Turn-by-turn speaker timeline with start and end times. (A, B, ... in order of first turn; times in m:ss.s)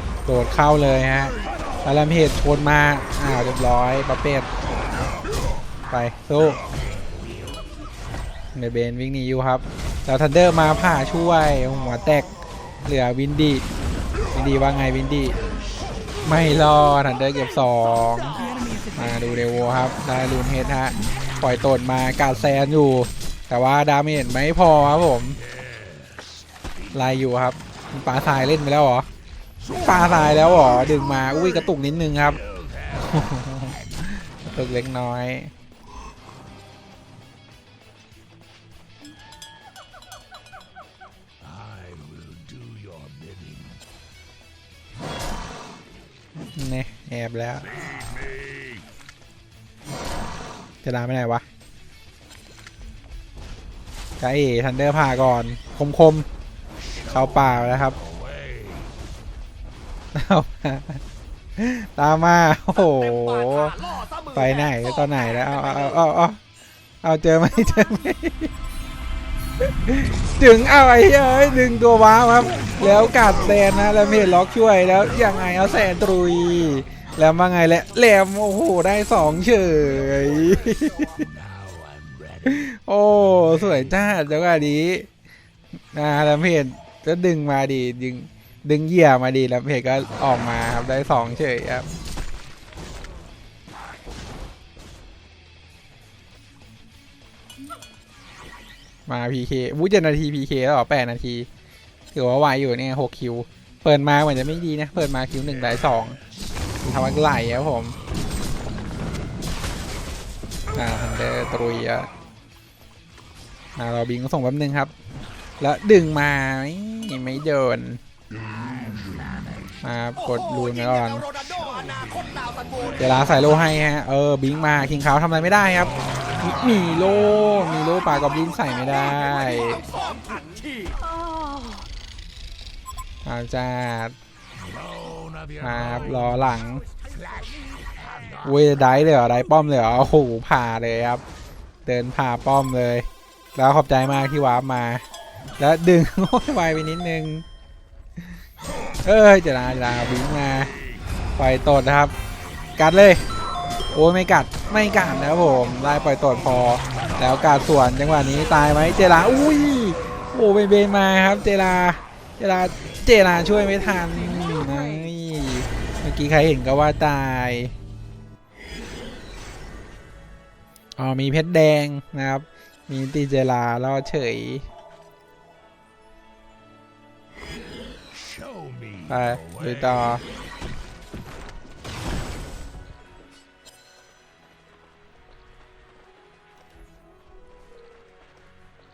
0:00.2-0:04.5 A
0:05.9-0:06.6 A
0:08.5-0:12.3 A
0:12.8-0:13.6 A
0:14.3-0:15.4 A
0:16.2-0:25.4 A
0:25.5-0:26.6 B
0:26.9-0:29.1 A
0:29.8-0:32.4 A
0:32.5-0:32.9 B
0:33.0-0:35.5 A
0:41.4-0:43.8 B
0:46.6-0:47.7 A
0:47.8-0:48.8 B
0:50.8-0:51.4 A
0:54.2-0:56.3 A
0:57.1-0:58.0 A
0:57.4-0:58.9 B
1:00.1-1:01.0 A
1:01.6-1:06.4 A
1:07.0-1:08.5 A
1:09.6-1:21.2 A
1:21.1-1:22.6 B
1:22.4-1:25.1 A
1:25.9-1:31.8 A
1:39.1-1:41.5 A
1:42.1-1:46.2 A
1:46.8-1:48.0 A
1:50.7-1:52.1 A
1:53.8-1:54.9 A
1:55.6-1:58.0 A
1:58.8-1:59.2 B
1:59.8-2:01.3 A
2:01.5-2:02.9 B
2:03.0-2:09.8 A
2:10.1-2:11.0 B
2:13.2-2:14.1 A
2:14.6-2:16.3 B
2:15.6-2:16.8 A
2:16.9-2:18.4 B
2:18.4-2:21.2 A
2:21.8-2:25.0 A
2:25.6-2:27.4 A
2:29.0-2:30.7 A
2:31.4-2:32.1 A
2:32.8-2:33.2 A
2:33.9-2:47.7 A
2:51.0-2:54.7 A
2:58.1-3:00.0 B
2:59.1-3:00.2 A